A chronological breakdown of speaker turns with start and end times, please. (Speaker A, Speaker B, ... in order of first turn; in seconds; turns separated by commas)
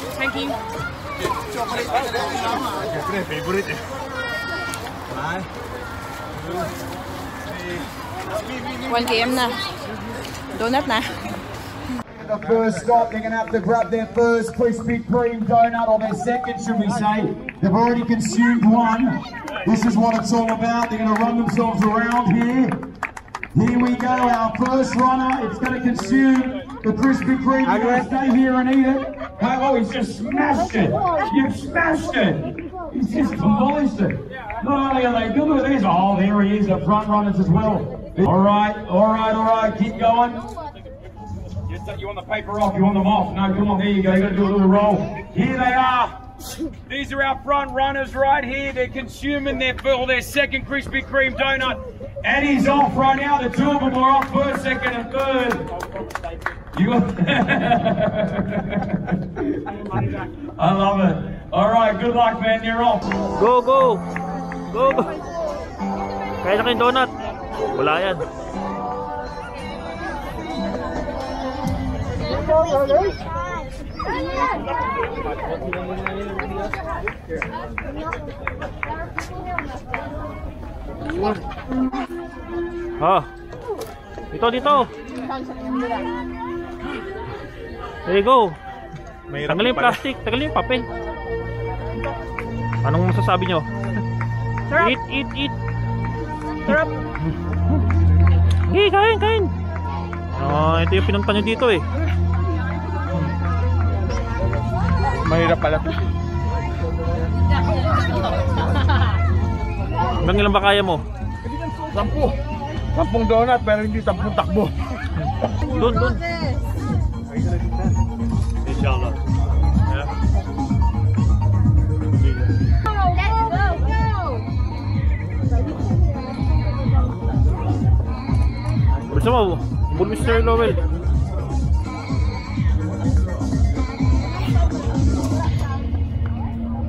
Speaker A: 0.2-0.6, Speaker B: 1.8-3.8, Speaker B: 5.1-5.4, Speaker A: 8.9-9.7, Speaker A: 10.5-11.3, Speaker C: 12.2-22.8, Speaker B: 12.4-13.0, Speaker C: 23.5-40.5, Speaker B: 27.7-28.1, Speaker C: 41.7-46.1, Speaker C: 46.9-55.7, Speaker C: 56.7-63.0, Speaker D: 63.3-64.0, Speaker D: 64.7-65.1, Speaker D: 66.4-67.1, Speaker D: 67.7-68.2, Speaker B: 75.1-76.5, Speaker D: 83.0-83.3, Speaker D: 84.3-84.9, Speaker A: 85.3-86.0, Speaker D: 88.0-88.6, Speaker B: 89.3-90.0, Speaker D: 89.4-90.9, Speaker D: 92.8-93.7, Speaker D: 94.7-95.5, Speaker A: 96.7-97.0, Speaker D: 98.7-99.5, Speaker D: 100.3-101.8, Speaker B: 105.2-106.0, Speaker D: 110.2-111.0, Speaker B: 111.4-112.3, Speaker B: 112.9-114.7, Speaker D: 115.6-116.2, Speaker B: 117.3-118.0, Speaker D: 118.6-119.2, Speaker A: 123.0-123.8, Speaker D: 129.1-130.8